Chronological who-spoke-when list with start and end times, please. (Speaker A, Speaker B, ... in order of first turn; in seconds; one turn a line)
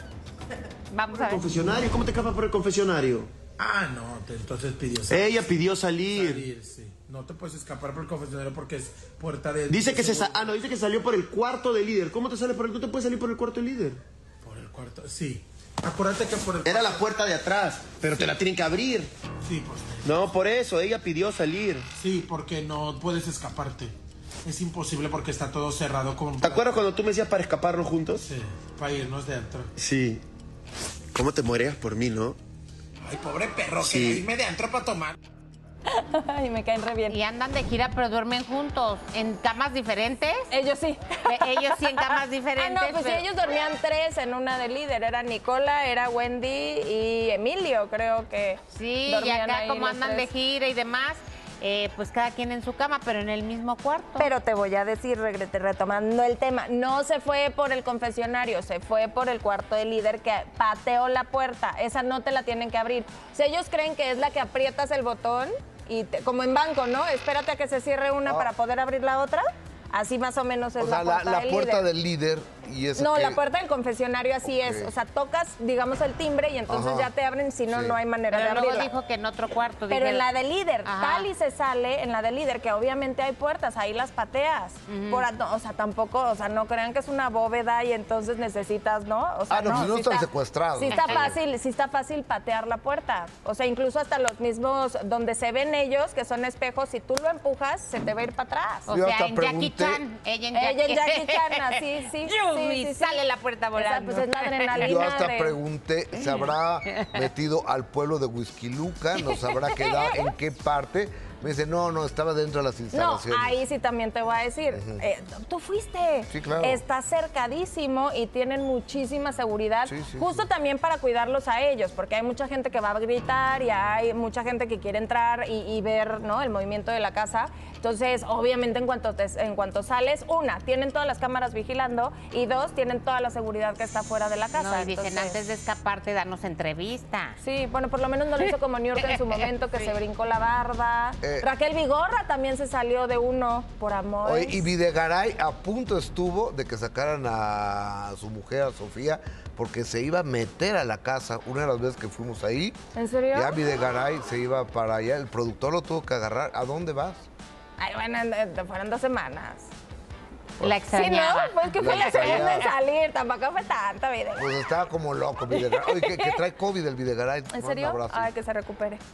Speaker A: 0.9-1.4
Speaker B: 1.2-3.3
Speaker C: 3.6-10.5
Speaker B: 5.1-6.5
Speaker B: 9.7-14.0
Speaker C: 14.4-17.1
Speaker B: 16.6-19.1
Speaker C: 19.4-20.2
Speaker B: 20.0-21.9
Speaker C: 21.9-26.8
Speaker B: 26.4-28.2
Speaker C: 28.2-29.7
Speaker B: 29.8-30.2
Speaker B: 31.1-32.4
Speaker C: 33.0-35.1
Speaker B: 33.8-34.2
Speaker D: 35.9-37.1
Speaker A: 37.1-40.5
Speaker D: 40.5-50.3
Speaker A: 41.2-43.2
Speaker A: 48.7-54.3
Speaker D: 54.2-71.8
Speaker E: 68.2-68.5
Speaker E: 70.8-73.4
Speaker D: 73.0-78.9
Speaker E: 74.4-74.9
Speaker E: 76.7-77.1
Speaker E: 77.7-78.0
Speaker A: 78.3-80.3
Speaker D: 79.9-98.9
Speaker A: 80.8-81.3
Speaker A: 84.9-85.3
Speaker E: 89.5-91.4
Speaker A: 90.9-91.3
Speaker E: 98.9-100.0
Speaker A: 98.9-105.1
Speaker D: 100.5-103.2
Speaker D: 103.7-105.6
Speaker E: 104.7-113.6
Speaker A: 106.2-107.1
Speaker D: 112.9-135.4
Speaker E: 114.7-115.0
Speaker E: 116.3-116.8
Speaker E: 119.8-120.4
Speaker A: 134.5-137.4
Speaker D: 137.4-144.7
Speaker E: 141.2-141.5
Speaker E: 144.2-152.8
Speaker D: 152.9-153.6
Speaker E: 153.3-157.3
Speaker D: 157.8-159.7
Speaker A: 160.6-162.7
Speaker D: 160.9-164.6
Speaker E: 161.8-162.7
Speaker E: 164.3-168.3
Speaker D: 165.5-166.4
Speaker D: 167.5-169.0